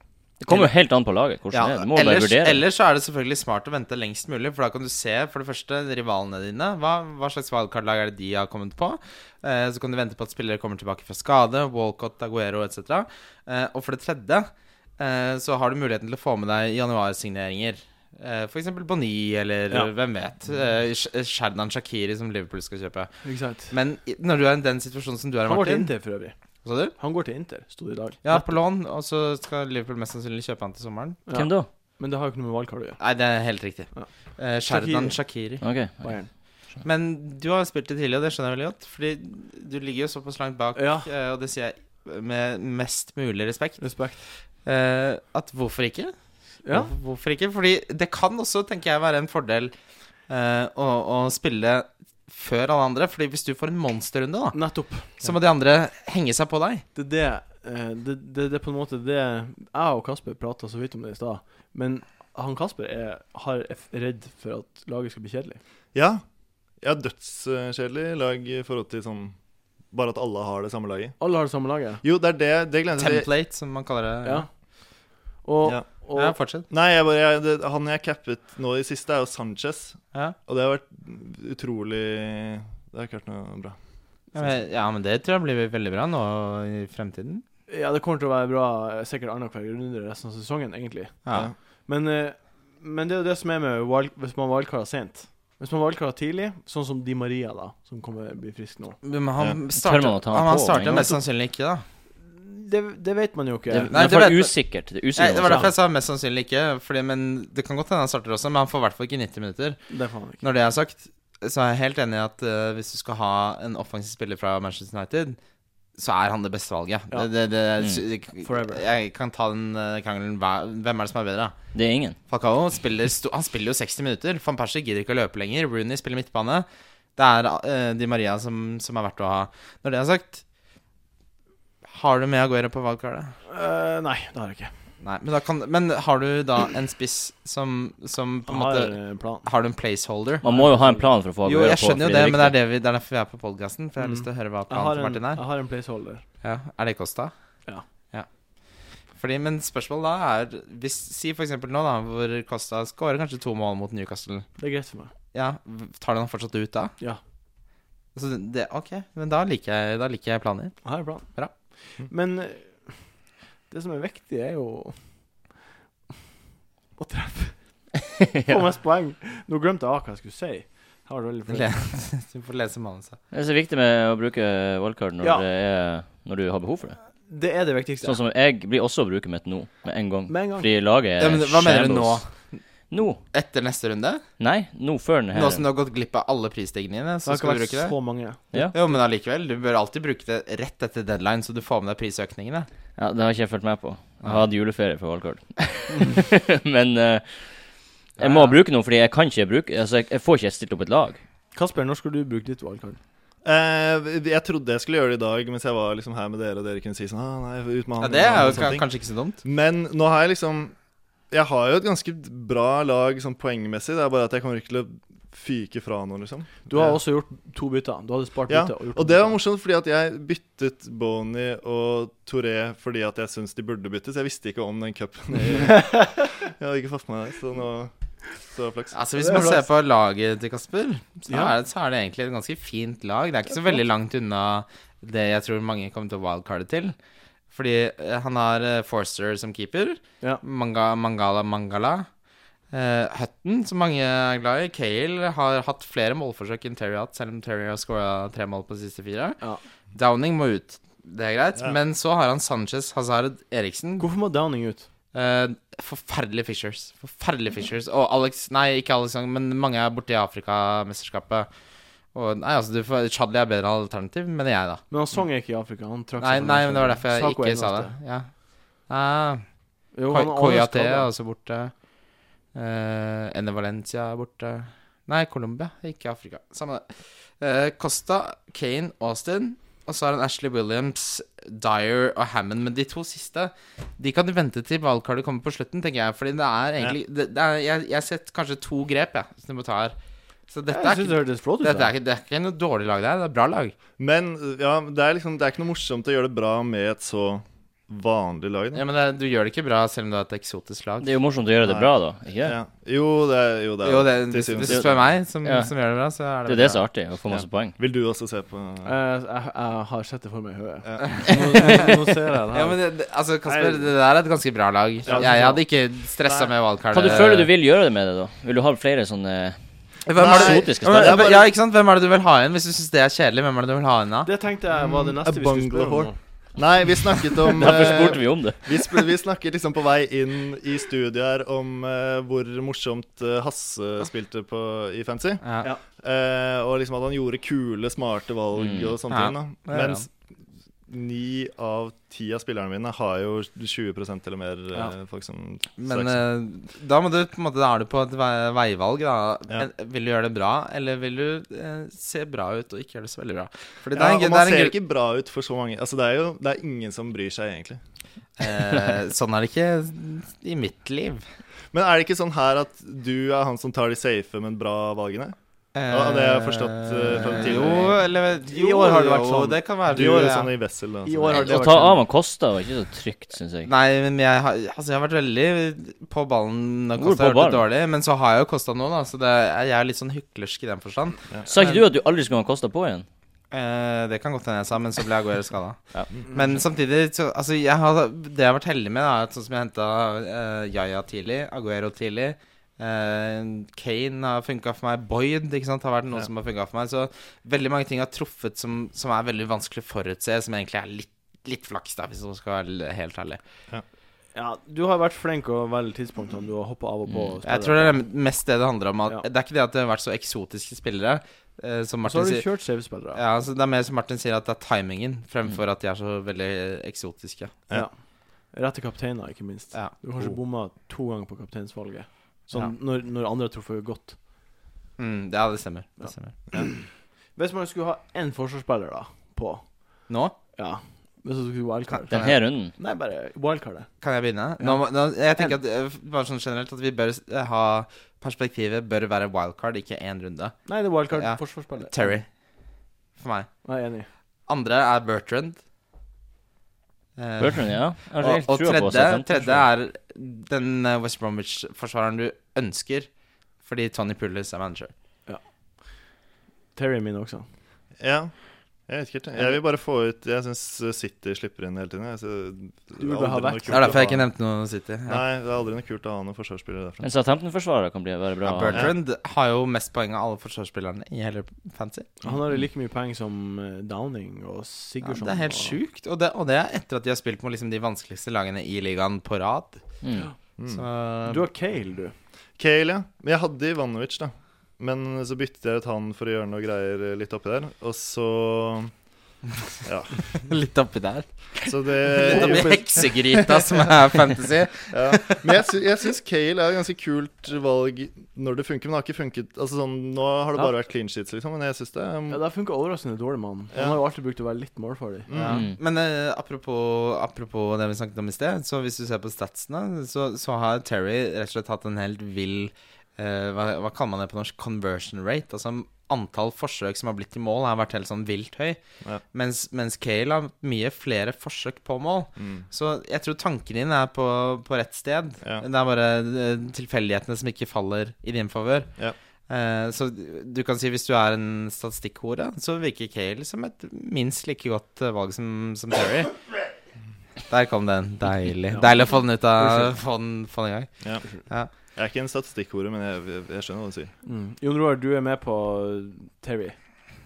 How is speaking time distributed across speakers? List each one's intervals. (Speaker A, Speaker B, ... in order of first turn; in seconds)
Speaker A: 0.4-2.6, 31.3-31.7, 35.6-36.8, 99.8-101.1, 103.7-105.7, 121.7-122.1, 140.4-142.6, 173.3-177.0, 178.0-182.2, 182.9-183.2, 184.4-185.6, 192.9-201.2, 301.0-302.6, 304.6-305.7, 306.4-307.8, 316.9-319.6, 320.1-321.3, 327.5-328.6, 338.5-338.9, 371.3-373.7, 377.0-377.6, 381.5-383.1, 407.1-407.3, 432.1-432.7, 447.4-449.6, 467.0-468.9, 480.0-480.3, 505.5-505.8
Speaker B: 1.5-26.1, 26.6-26.9, 28.2-31.2, 33.0-35.6, 36.8-46.1, 46.7-49.7, 50.3-56.8, 73.0-74.5, 76.1-76.7, 84.3-87.4, 91.2-91.5, 99.0-101.8, 103.9-115.4, 115.9-121.6, 122.3-130.4, 131.9-133.3, 135.0-140.4, 141.4-145.4, 146.4-147.3, 149.1-154.5, 155.3-156.9, 158.1-161.5, 171.5-173.2, 181.2-182.6, 183.3-184.2, 185.3-192.7, 208.0-209.4, 228.9-236.9, 237.5-242.1, 242.7-249.4, 249.9-254.1, 255.1-261.5, 262.1-264.8, 266.2-269.4, 270.0-271.7, 272.5-289.9, 290.5-293.7, 298.7-301.1, 303.8-306.9, 311.0-311.9, 312.5-317.5, 320.1-324.3, 335.4-335.7, 339.1-340.0, 345.8-354.7, 358.4-361.2, 365.7-370.5, 373.6-381.8, 383.5-403.4, 407.4-417.5, 425.0-426.3, 430.1-430.3, 432.1-432.4, 434.0-442.4, 443.1-443.7, 444.4-445.6, 447.1-453.1, 453.6-454.9, 463.7-465.2, 468.4-472.1, 475.0-480.0, 480.7-481.5, 490.3-495.5, 505.3-518.8, 519.3-528.9, 529.5-536.5, 537.5-541.7
Speaker C: 23.2-23.7, 25.4-28.6, 31.2-33.0, 33.9-35.2, 36.0-36.3, 40.8-41.1, 43.8-44.2, 46.6-46.9, 54.5-55.2, 56.9-65.6, 71.2-72.0, 74.2-74.5, 75.1-76.4, 87.7-99.0, 102.2-103.9, 105.4-105.7, 109.9-110.4, 118.4-118.8, 133.4-134.7, 138.5-139.4, 140.4-141.1, 144.0-146.2, 154.6-155.1, 160.8-165.5, 166.9-171.7, 175.2-175.4, 177.3-178.2, 180.3-180.7, 187.2-189.0, 198.2-198.5, 201.5-203.0, 216.7-219.3, 225.5-226.3, 229.2-229.7, 231.3-231.5, 254.0-254.9, 264.9-267.9, 269.9-271.1, 290.7-291.9, 308.8-312.8, 313.4-313.9, 315.1-315.6, 324.2-326.2, 368.4-370.2, 371.0-372.0, 404.3-408.0, 412.0-413.2, 417.7-424.2, 426.0-433.9, 434.6-435.6, 440.6-442.2, 443.6-444.1, 455.3-456.0, 456.7-457.4, 463.0-464.1, 472.2-475.8, 481.2-482.1, 492.2-493.2, 502.3-505.3, 538.7-539.9, 544.2-547.1
Speaker D: 65.9-66.2, 66.8-69.4, 69.9-71.2, 72.0-73.3, 76.7-83.8, 203.4-208.9, 209.4-210.7, 211.3-217.0, 218.5-229.5, 294.0-298.8, 301.6-305.1, 307.3-308.9, 315.1-315.6, 316.2-316.5, 320.1-321.5, 324.7-340.1, 340.9-346.2, 353.9-357.8, 361.7-365.3, 365.9-367.9, 369.9-371.8, 458.0-464.3, 465.1-467.1, 468.7-468.9, 480.6-480.8, 482.6-488.9, 489.8-490.3, 491.6-493.3, 494.9-502.4, 505.3-505.6, 522.4-522.6, 541.0-544.1